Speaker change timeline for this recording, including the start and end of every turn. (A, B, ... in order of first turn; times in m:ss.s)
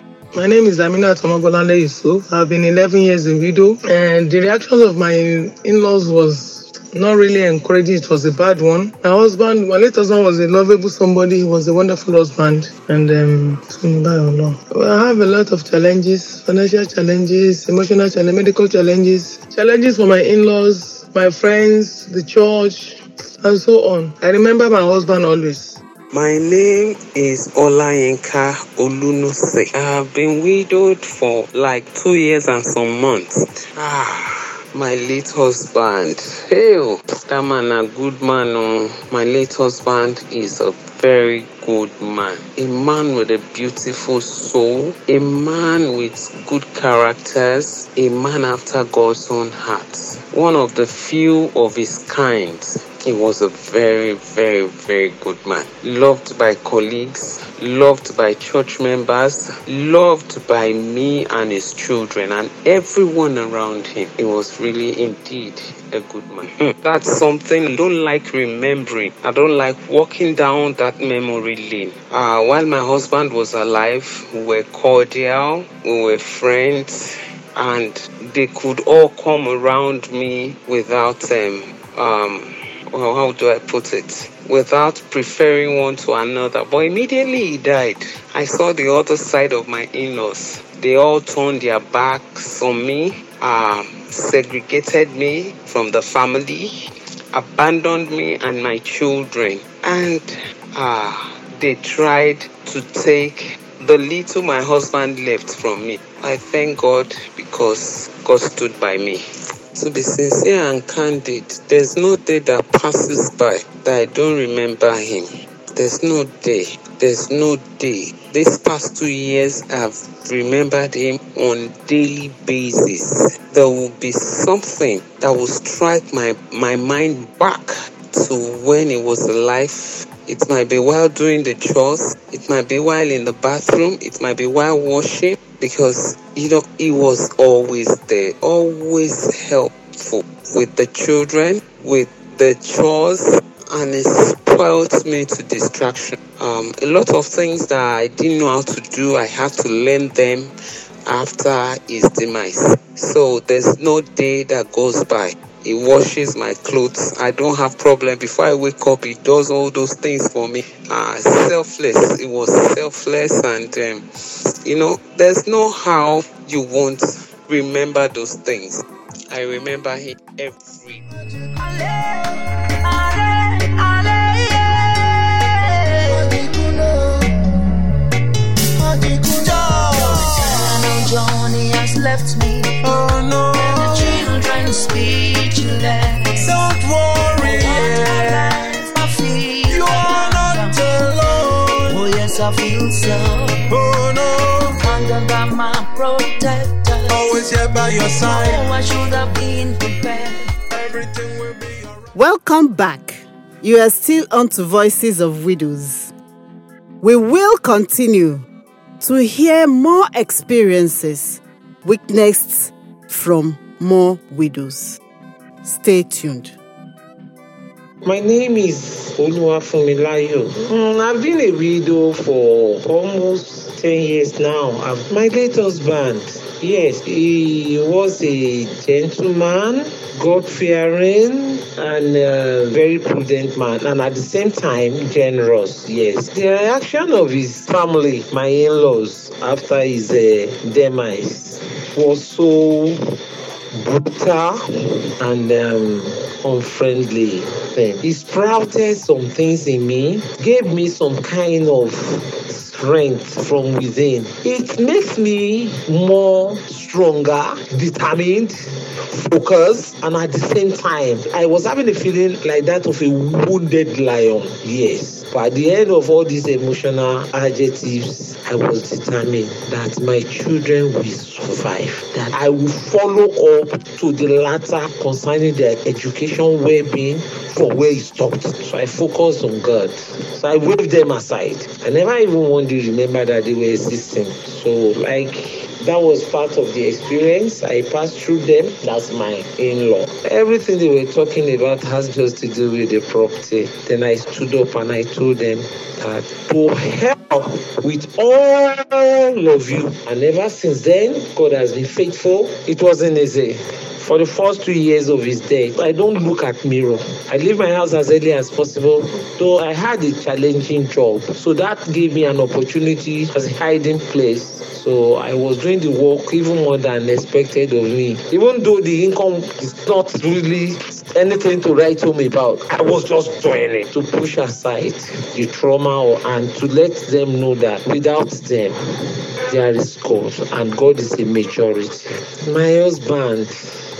0:00.3-0:25.8 A
0:26.1-1:36.7 B
1:37.3-1:49.2 B
1:49.7-2:30.5 B
2:31.1-2:44.0 B
2:44.6-2:51.0 B
2:51.6-2:57.0 C
2:58.9-3:00.6 D
2:59.0-3:02.9 C
3:02.8-3:04.2 D
3:03.5-3:06.6 C
3:06.4-3:08.4 D
3:07.4-3:10.8 C
3:09.7-3:12.0 D
3:11.8-3:13.7 C
3:13.7-3:14.7 D
3:14.8-3:17.2 C
3:17.1-3:18.7 D
3:18.1-3:20.5 C
3:20.7-3:22.1 D
3:22.2-3:26.1 E
3:27.0-3:28.4 E
3:29.0-3:35.0 E
3:35.6-3:36.6 E
3:38.0-4:03.0 F
4:03.7-4:04.6 F
4:05.2-4:18.6 F
4:19.1-5:28.8 F
5:29.5-5:33.6 F